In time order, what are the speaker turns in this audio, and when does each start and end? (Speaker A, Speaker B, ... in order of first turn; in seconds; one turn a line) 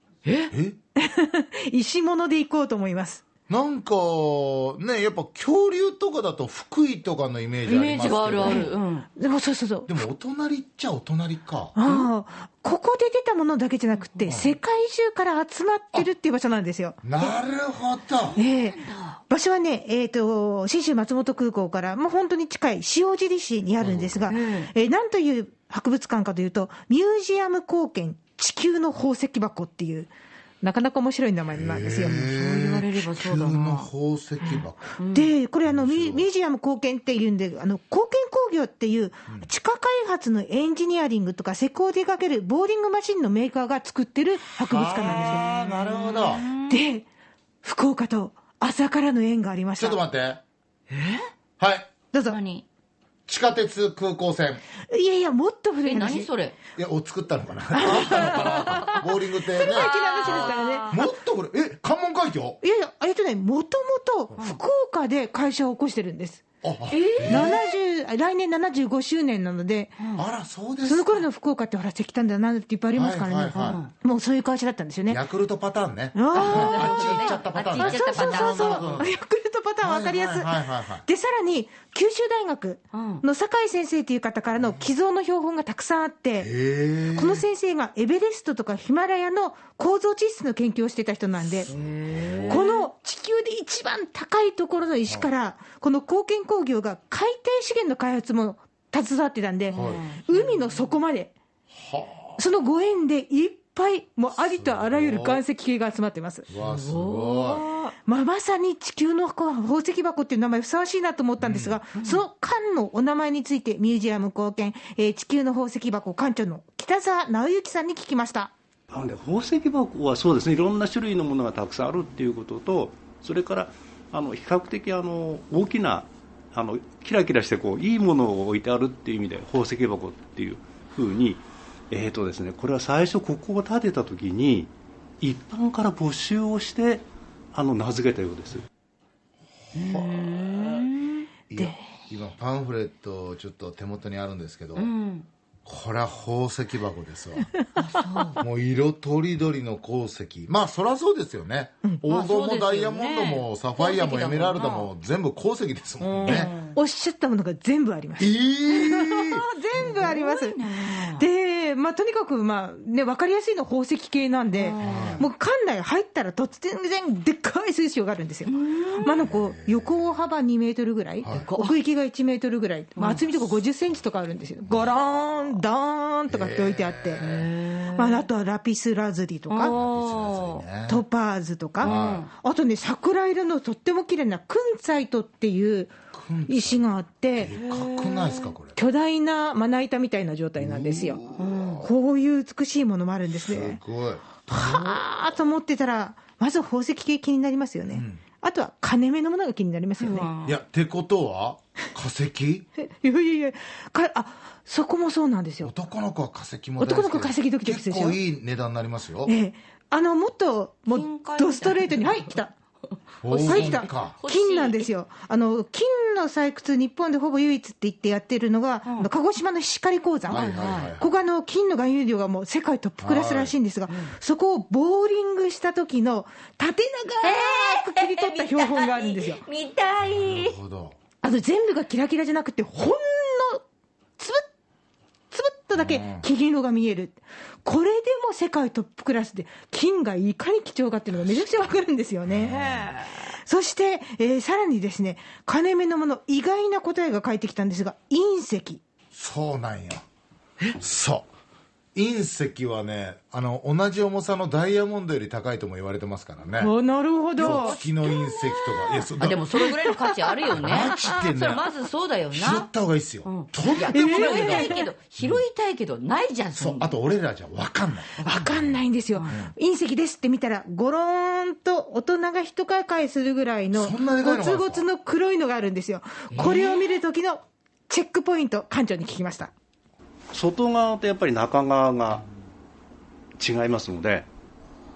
Speaker A: 0.2-0.5
Speaker B: 0.5-0.8
Speaker C: 1.0-3.2
Speaker B: 3.5-8.7
Speaker A: 7.7-9.1
Speaker C: 8.4-10.0
Speaker B: 9.9-11.8
Speaker C: 11.8-17.4
Speaker A: 14.0-14.3
Speaker B: 14.3-14.6
Speaker B: 17.0-18.4
Speaker C: 18.4-30.1
Speaker A: 18.4-19.2
Speaker B: 23.8-24.3
Speaker A: 24.3-24.7
Speaker C: 30.6-32.3
Speaker B: 31.5-35.0
Speaker A: 32.1-33.9
Speaker C: 34.4-45.5
Speaker A: 35.0-35.3
Speaker B: 35.6-36.3
Speaker B: 44.7-46.5
Speaker A: 45.2-46.8
Speaker C: 46.7-47.1
Speaker C: 47.6-50.0
Speaker B: 49.8-50.4
Speaker A: 50.9-51.3
Speaker B: 51.6-51.9
Speaker C: 52.1-52.4
Speaker A: 52.2-52.7
Speaker B: 53.3-54.6
Speaker C: 54.9-56.3
Speaker A: 55.8-56.5
Speaker B: 56.8-62.6
Speaker C: 57.7-61.0
Speaker A: 58.2-58.5
Speaker A: 59.6-61.0
Speaker C: 62.6-66.4
Speaker B: 66.6-67.6
Speaker A: 66.9-67.6
Speaker C: 67.3-70.0
Speaker B: 70.2-71.2
Speaker C: 70.8-75.2
Speaker B: 72.9-73.8
Speaker A: 73.7-73.9
Speaker B: 75.1-79.2
Speaker C: 76.1-86.5
Speaker A: 76.3-79.0
Speaker B: 79.8-81.1
Speaker A: 82.9-83.2
Speaker B: 84.6-84.9
Speaker B: 86.4-87.5
Speaker C: 87.1-91.7
Speaker B: 91.5-92.6
Speaker A: 91.7-92.9
Speaker C: 92.5-101.3
Speaker A: 99.7-101.0
Speaker B: 99.7-100.1
Speaker B: 101.7-102.5
Speaker C: 102.4-106.5
Speaker B: 104.4-105.4
Speaker B: 106.5-107.6
Speaker A: 106.6-108.0
Speaker C: 108.0-118.5
Speaker B: 111.4-111.8
Speaker A: 112.0-112.2
Speaker D: 118.9-138.7
Speaker B: 139.7-140.9
Speaker A: 139.7-141.3
Speaker B: 141.5-144.9
Speaker A: 144.8-145.3
Speaker B: 145.7-147.5
Speaker A: 147.8-148.4
Speaker B: 148.4-156.6
Speaker A: 152.1-154.9
Speaker A: 156.0-156.8
Speaker C: 156.2-177.3
Speaker B: 158.2-159.4
Speaker A: 159.8-161.3
Speaker A: 164.5-165.3
Speaker B: 164.8-165.3
Speaker A: 168.4-169.3
Speaker B: 169.2-170.2
Speaker B: 171.2-171.5
Speaker A: 171.3-171.8
Speaker A: 173.0-173.2
Speaker B: 176.3-177.4
Speaker A: 177.2-178.3
Speaker C: 177.9-179.8
Speaker A: 179.5-180.7
Speaker B: 179.7-181.1
Speaker C: 180.9-185.9
Speaker B: 181.8-182.3
Speaker A: 181.8-182.3
Speaker B: 186.1-188.8
Speaker C: 186.5-187.5
Speaker A: 187.5-188.5
Speaker C: 188.8-191.2
Speaker B: 190.6-191.9
Speaker A: 191.4-191.8
Speaker C: 191.8-193.8
Speaker B: 193.3-195.1
Speaker C: 194.5-200.3
Speaker B: 197.9-198.2
Speaker A: 200.0-200.6
Speaker B: 200.4-202.7
Speaker C: 202.8-205.7
Speaker B: 205.6-209.3
Speaker C: 206.8-208.2
Speaker C: 209.2-212.5
Speaker A: 210.9-212.3
Speaker B: 213.2-214.2
Speaker A: 213.2-214.9
Speaker C: 213.4-229.4
Speaker B: 220.3-221.1
Speaker A: 220.3-220.9
Speaker B: 223.0-223.6
Speaker A: 223.9-224.1
Speaker E: 227.2-230.6
Speaker B: 230.0-231.0
Speaker C: 231.2-233.6
Speaker C: 234.2-234.4
Speaker C: 235.3-248.8
Speaker B: 235.7-236.3
Speaker B: 241.1-241.7
Speaker B: 242.2-243.0
Speaker A: 242.7-243.1
Speaker B: 249.1-250.0
Speaker B: 250.8-251.3
Speaker B: 251.9-256.7
Speaker C: 256.6-257.8
Speaker A: 257.4-262.7
Speaker B: 257.4-261.7
Speaker B: 262.3-265.5
Speaker A: 263.2-266.9
Speaker C: 263.9-264.9
Speaker B: 266.5-269.5
Speaker A: 268.2-268.5
Speaker C: 268.2-279.5
Speaker B: 273.7-274.9
Speaker A: 276.3-277.0
Speaker D: 280.3-282.2
Speaker D: 283.4-284.3